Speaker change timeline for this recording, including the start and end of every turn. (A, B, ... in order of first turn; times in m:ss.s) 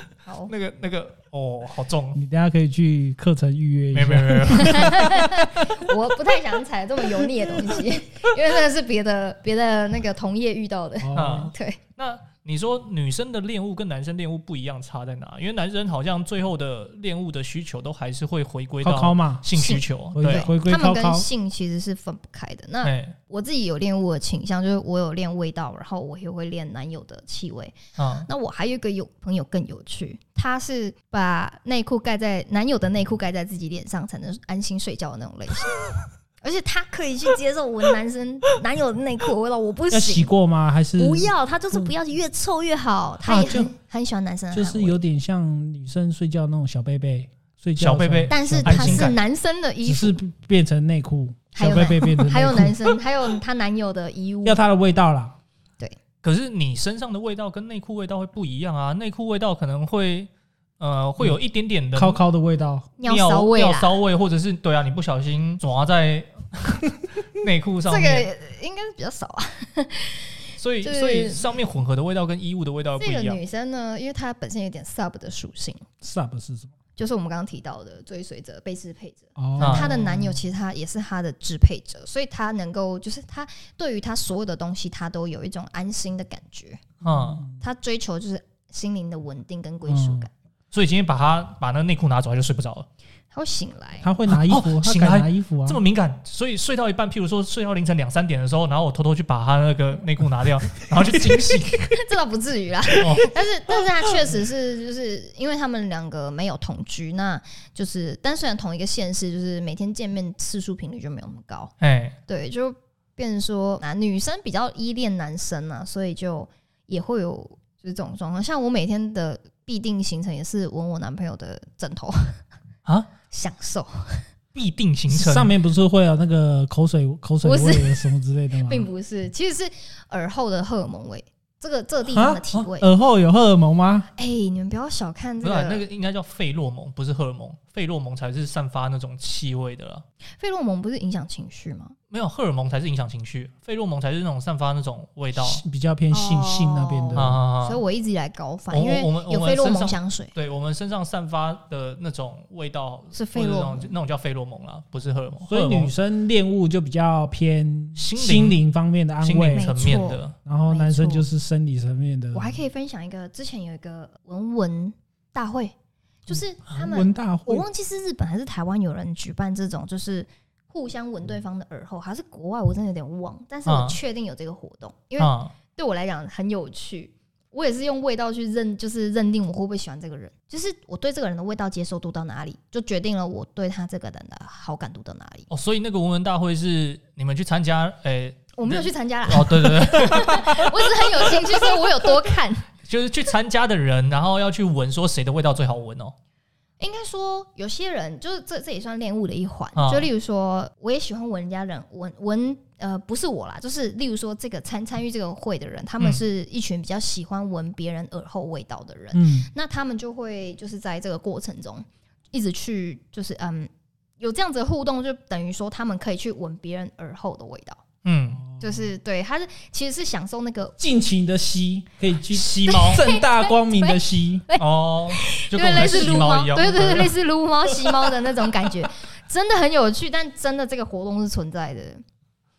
0:00.2-0:00.5 A
0:00.5-0:02.2 B
0:02.1-0:05.9 C
0:03.9-0:05.1 B
0:04.5-0:11.8 A
0:11.0-0:11.5 C
0:11.1-0:20.5 B
0:18.8-0:19.4 C
0:19.5-0:35.8 A
0:20.1-0:21.2 C
0:22.8-0:23.1 B
0:28.0-0:28.3 B
0:36.4-0:40.3 A
0:39.9-0:41.9 C
0:41.0-0:45.0 A
0:43.2-0:43.7 C
0:44.5-0:49.2 C
0:47.8-0:49.2 B
0:48.3-0:50.2 A
0:49.8-0:53.0 C
0:51.5-0:54.6 A
0:54.4-0:55.4 C
0:56.2-1:02.2 B
1:01.9-1:02.9 C
1:03.0-1:03.9 A
1:03.0-1:08.3 B
1:07.9-1:11.4 A
1:10.6-1:13.4 B
1:13.0-1:15.8 A
1:16.0-1:16.7 C
1:17.0-1:26.8 A
1:19.4-1:20.3 C
1:19.6-1:20.2 B
1:27.0-1:27.4 B
1:27.0-1:27.6 C
1:27.6-1:30.3 A
1:29.9-1:30.3 C
1:30.7-1:32.9 B
1:33.3-1:34.1 A
1:34.0-1:35.8 C
1:34.3-1:42.0 B
1:41.9-1:51.7 A
1:43.0-1:43.3 B
1:51.8-1:52.2 B
1:52.3-2:02.4 A
2:03.3-2:04.2 A
2:04.5-2:05.5 B
2:05.1-2:08.9 C
2:07.4-2:12.9 A
2:12.1-2:14.1 C
2:14.1-2:15.8 A
2:15.4-2:20.0 B
2:20.4-2:21.9 A
2:22.1-2:25.6 B
2:25.3-2:27.4 C
2:26.1-2:30.3 A
2:27.1-2:27.8 B
2:28.7-2:35.9 B
2:33.1-2:33.9 A
2:35.5-2:42.6 C
2:38.0-2:38.6 B
2:39.2-2:40.3 B
2:39.5-2:41.3 A
2:42.3-2:45.7 A
2:46.2-3:05.5 A
2:46.7-2:47.6 C
2:53.6-2:54.0 B
2:55.2-2:55.5 B
3:05.5-3:11.8 B
3:08.6-3:12.7 A
3:12.8-3:16.1 B
3:16.8-3:37.8 A
3:19.7-3:20.1 B
3:29.1-3:29.5 C
3:38.0-3:38.4 B
3:38.4-3:38.9 C
3:38.6-3:40.8 A
3:40.8-3:44.4 C
3:42.3-3:43.0 B
3:42.6-3:52.0 A
3:44.6-3:47.1 B
3:45.8-3:46.2 C
3:47.8-3:48.1 C